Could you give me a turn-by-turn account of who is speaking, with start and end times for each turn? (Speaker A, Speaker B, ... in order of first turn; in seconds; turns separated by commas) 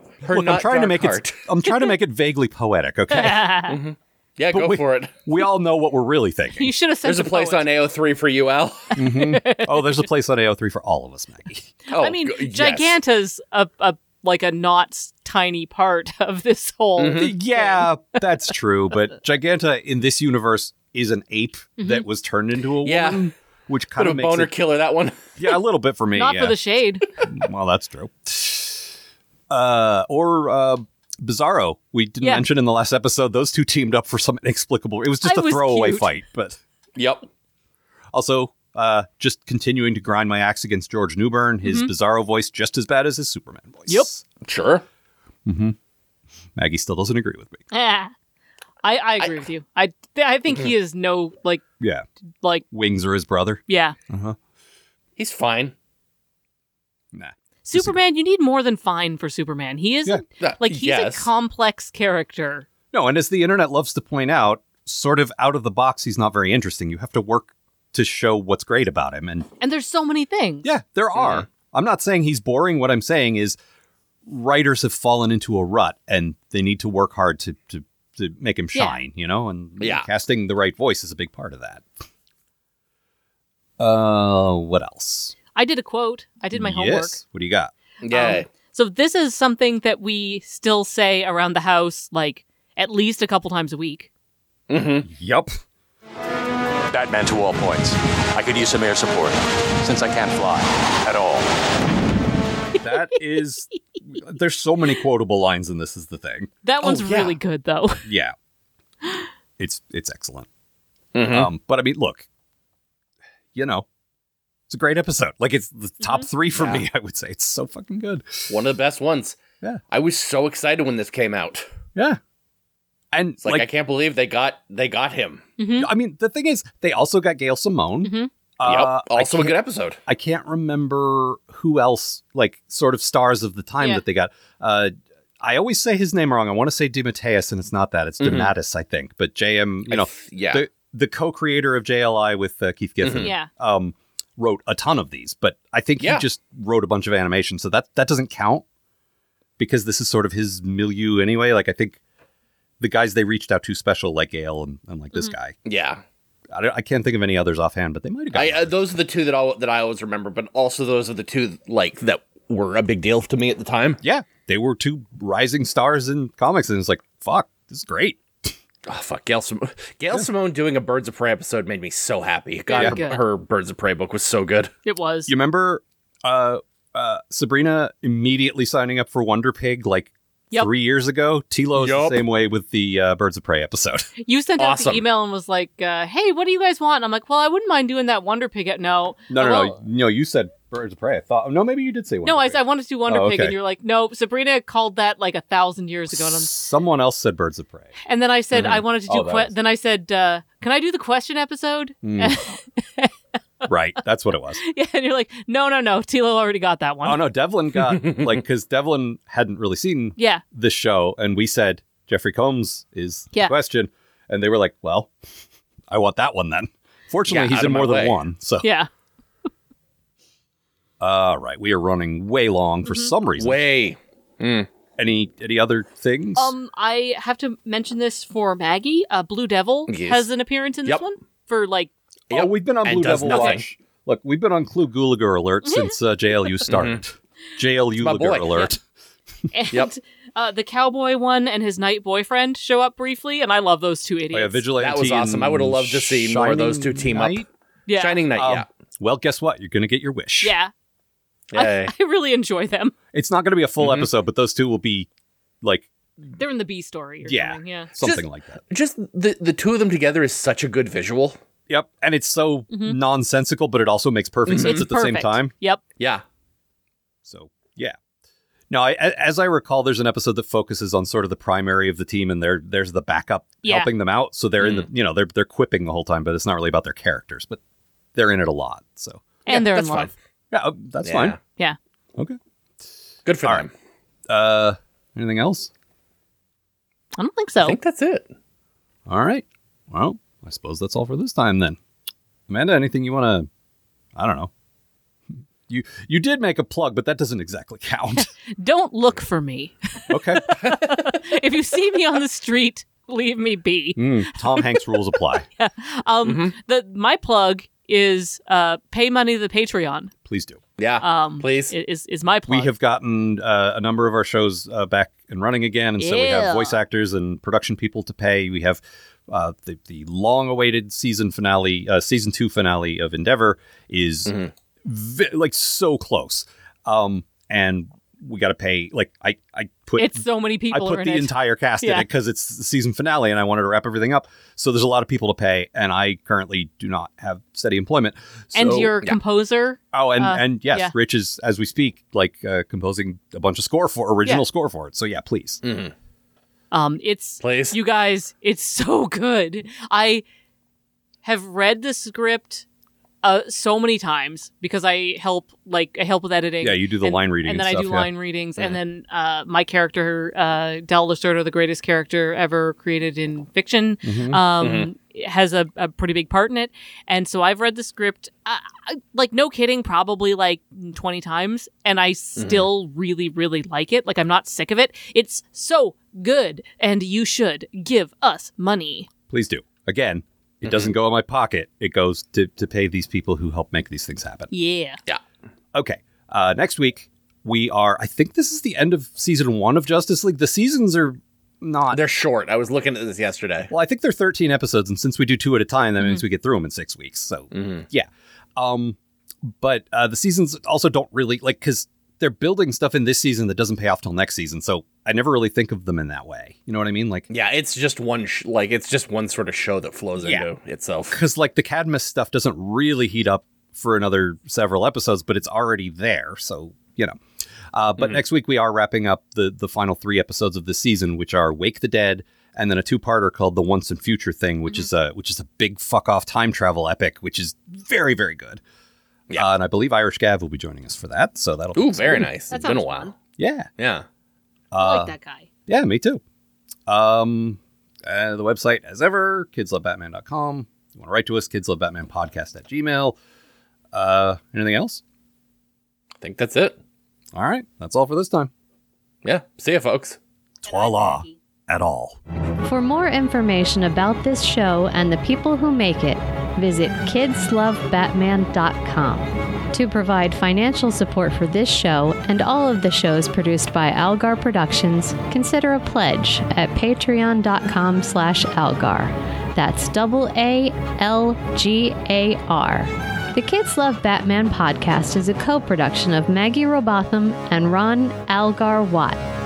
Speaker A: 0.2-1.4, Speaker B: 0.2-3.5, Speaker C: 3.1-3.8, Speaker A: 3.7-5.2, Speaker B: 4.5-6.7, Speaker C: 6.6-7.7, Speaker A: 7.0-9.0, Speaker B: 8.9-11.7, Speaker C: 9.0-10.0, Speaker C: 11.9-17.9, Speaker A: 11.9-13.0, Speaker A: 17.0-17.3, Speaker B: 17.2-24.5, Speaker C: 21.8-22.1, Speaker A: 22.8-23.3, Speaker A: 24.0-25.3, Speaker B: 25.4-26.6, Speaker C: 26.1-27.1, Speaker B: 27.2-28.9, Speaker B: 29.5-36.6, Speaker C: 32.2-32.5, Speaker C: 35.2-36.1, Speaker A: 37.0-37.2, Speaker B: 38.1-44.2, Speaker C: 41.6-41.9, Speaker A: 44.4-44.8, Speaker B: 45.5-45.8, Speaker B: 46.5-47.6, Speaker C: 47.7-48.1, Speaker C: 48.8-51.6, Speaker B: 51.8-52.0, Speaker B: 52.7-54.4, Speaker C: 53.7-54.0, Speaker A: 55.2-55.7, Speaker B: 57.1-58.0, Speaker C: 57.6-62.7, Speaker A: 60.4-61.3, Speaker B: 62.9-69.5, Speaker C: 69.6-70.7, Speaker B: 70.6-73.6, Speaker A: 71.1-71.5, Speaker B: 74.3-81.9, Speaker C: 78.7-79.0, Speaker A: 79.8-80.0, Speaker B: 83.8-85.4, Speaker C: 85.5-87.2, Speaker B: 86.5-87.7, Speaker A: 88.0-88.5, Speaker C: 88.1-94.1, Speaker A: 94.7-95.0, Speaker B: 95.0-95.5, Speaker D: 96.9-101.5, Speaker C: 102.8-103.4, Speaker B: 102.8-106.5, Speaker C: 106.6-108.1, Speaker A: 106.8-107.4, Speaker B: 108.0-108.3, Speaker B: 109.6-110.5, Speaker A: 111.1-111.5, Speaker B: 111.3-112.2, Speaker B: 113.5-113.9, Speaker B: 114.7-118.5, Speaker A: 116.5-116.8, Speaker A: 118.5-121.7, Speaker B: 123.1-123.7, Speaker A: 123.5-125.4, Speaker C: 125.6-125.9, Speaker B: 125.8-129.5, Speaker C: 128.0-128.3, Speaker A: 128.6-130.0, Speaker B: 130.1-148.6, Speaker A: 138.2-138.5, Speaker A: 139.9-140.6, Speaker A: 143.0-143.3, Speaker C: 143.2-143.5, Speaker A: 146.0-146.2, Speaker B: 149.6-152.0, Speaker B: 152.8-155.6, Speaker A: 155.7-156.0, Speaker B: 156.5-158.8, Speaker A: 158.3-164.0, Speaker B: 164.0-168.5, Speaker A: 168.9-174.7, Speaker C: 172.7-173.2, Speaker C: 174.8-175.3, Speaker B: 175.3-184.1, Speaker A: 181.7-182.2, Speaker C: 184.2-189.8, Speaker A: 184.6-185.0, Speaker B: 189.3-193.6, Speaker C: 192.2-196.5, Speaker B: 196.1-197.9, Speaker C: 198.1-203.1, Speaker B: 198.6-199.5, Speaker B: 202.0-202.4, Speaker B: 203.7-204.6, Speaker C: 204.6-207.3, Speaker B: 207.0-215.1, Speaker C: 210.2-210.4, Speaker B: 215.9-218.7, Speaker A: 217.3-218.2, Speaker C: 218.6-218.9, Speaker B: 221.0-223.6, Speaker C: 222.9-223.1, Speaker A: 223.4-224.7, Speaker B: 225.0-226.5, Speaker C: 226.4-231.9, Speaker A: 229.9-230.3, Speaker A: 232.3-233.6, Speaker B: 232.3-238.8, Speaker C: 233.2-233.6, Speaker C: 235.6-235.9, Speaker A: 236.7-237.0, Speaker A: 238.0-238.7, Speaker C: 239.5-244.6, Speaker B: 244.3-247.5, Speaker A: 244.8-248.7, Speaker C: 247.9-248.2, Speaker B: 248.4-250.6, Speaker C: 250.4-250.7, Speaker A: 251.5-251.9, Speaker C: 251.6-252.9, Speaker B: 253.1-255.1, Speaker A: 253.8-254.1, Speaker B: 255.6-255.9, Speaker C: 256.4-257.9, Speaker B: 257.2-258.6, Speaker A: 258.0-261.4, Speaker B: 261.7-265.5, Speaker C: 262.7-263.0, Speaker A: 264.5-264.8, Speaker C: 264.5-265.8, Speaker B: 267.2-268.0, Speaker B: 268.7-277.6, Speaker C: 273.6-273.9, Speaker A: 274.6-274.9, Speaker B: 278.1-279.2, Speaker C: 279.5-280.1, Speaker A: 279.5-280.1, Speaker B: 280.5-281.4, Speaker A: 281.0-281.4, Speaker A: 283.2-283.7, Speaker B: 284.3-285.7, Speaker C: 287.2-287.8, Speaker A: 287.6-288.3, Speaker B: 289.1-291.8, Speaker B: 292.5-293.5, Speaker B: 294.1-294.5, Speaker B: 295.7-298.3, Speaker C: 298.5-310.1, Speaker B: 300.1-300.7, Speaker B: 304.0-305.5, Speaker A: 306.2-306.5, Speaker B: 310.2-310.6, Speaker A: 310.8-311.7, Speaker C: 311.0-312.7, Speaker B: 312.5-338.9, Speaker C: 316.0-316.8, Speaker C: 330.0-332.0, Speaker C: 338.5-340.9, Speaker B: 339.9-345.6, Speaker A: 345.6-345.9, Speaker C: 346.7-350.2, Speaker A: 347.4-347.8, Speaker C: 351.2-352.7, Speaker C: 353.2-379.1, Speaker B: 356.6-358.1, Speaker B: 364.0-364.4, Speaker A: 364.6-364.9, Speaker A: 372.4-372.7, Speaker B: 379.3-384.5, Speaker A: 380.6-380.9, Speaker C: 384.5-385.0, Speaker B: 385.7-392.0, Speaker A: 391.9-393.7, Speaker B: 393.7-407.3, Speaker A: 397.5-397.9, Speaker A: 407.3-411.2, Speaker B: 410.2-410.5, Speaker B: 411.1-417.2, Speaker B: 417.7-428.6, Speaker B: 429.3-432.3, Speaker A: 431.8-433.1, Speaker C: 432.5-433.1, Speaker B: 433.4-433.7, Speaker A: 433.8-434.1, Speaker B: 434.7-435.1, Speaker C: 434.8-435.5, Speaker B: 435.7-436.2, Speaker B: 436.9-443.2, Speaker B: 443.9-445.0, Speaker A: 446.2-446.8, Speaker B: 447.3-448.5, Speaker A: 449.2-450.2, Speaker B: 450.6-452.2, Speaker C: 450.6-451.4, Speaker E: 452.6-479.2